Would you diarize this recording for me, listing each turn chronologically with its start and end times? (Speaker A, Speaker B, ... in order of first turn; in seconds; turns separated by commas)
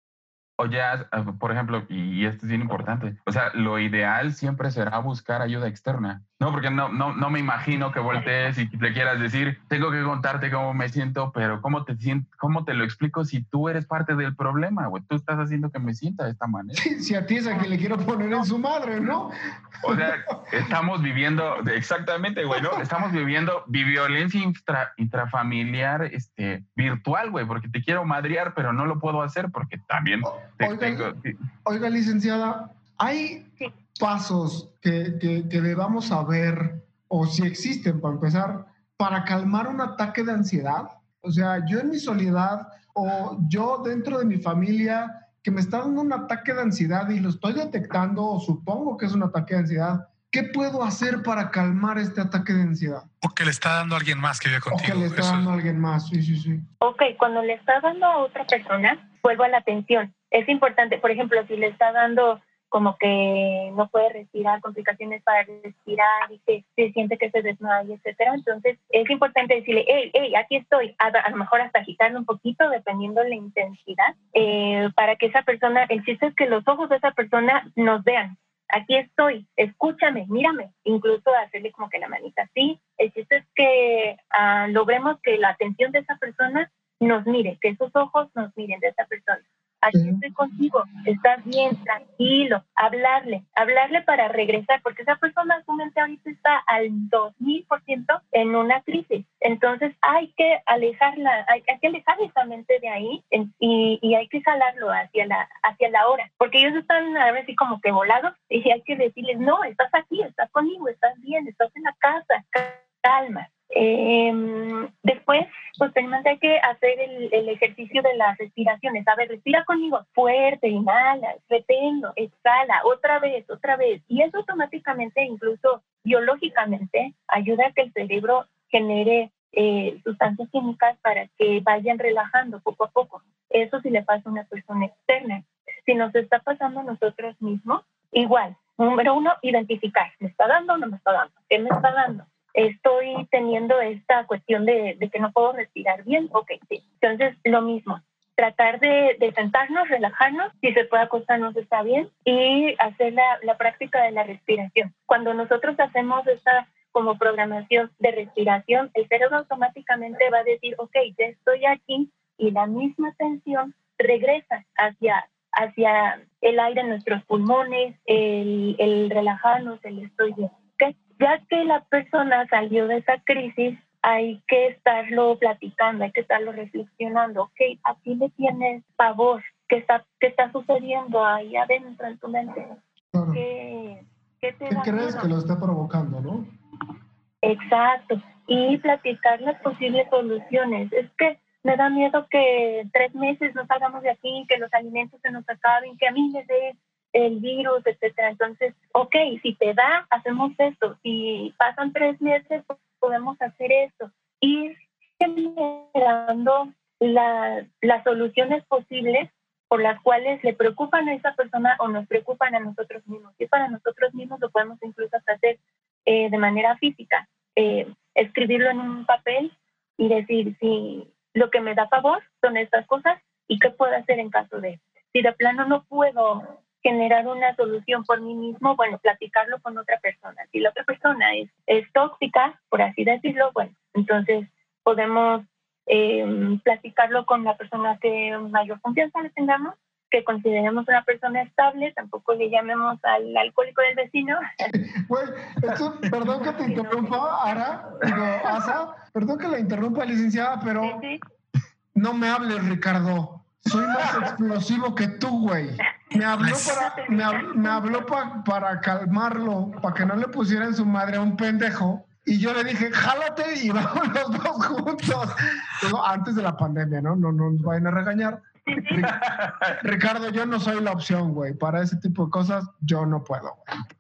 Speaker A: 0.6-16.8, Speaker B: 16.7-20.1, Speaker A: 19.8-31.3, Speaker B: 22.5-22.9, Speaker B: 30.2-31.1, Speaker B: 31.6-53.1, Speaker C: 53.2-55.5, Speaker B: 54.7-56.6, Speaker D: 56.8-182.7, Speaker B: 89.9-90.2, Speaker B: 183.1-183.4, Speaker D: 183.3-185.3, Speaker B: 184.7-186.5, Speaker D: 187.4-244.4, Speaker B: 244.6-251.0, Speaker D: 246.5-248.1, Speaker D: 250.8-251.2, Speaker B: 251.9-269.1, Speaker C: 256.4-256.8, Speaker D: 256.7-258.0, Speaker D: 268.7-269.0, Speaker A: 269.1-269.8, Speaker B: 269.8-273.7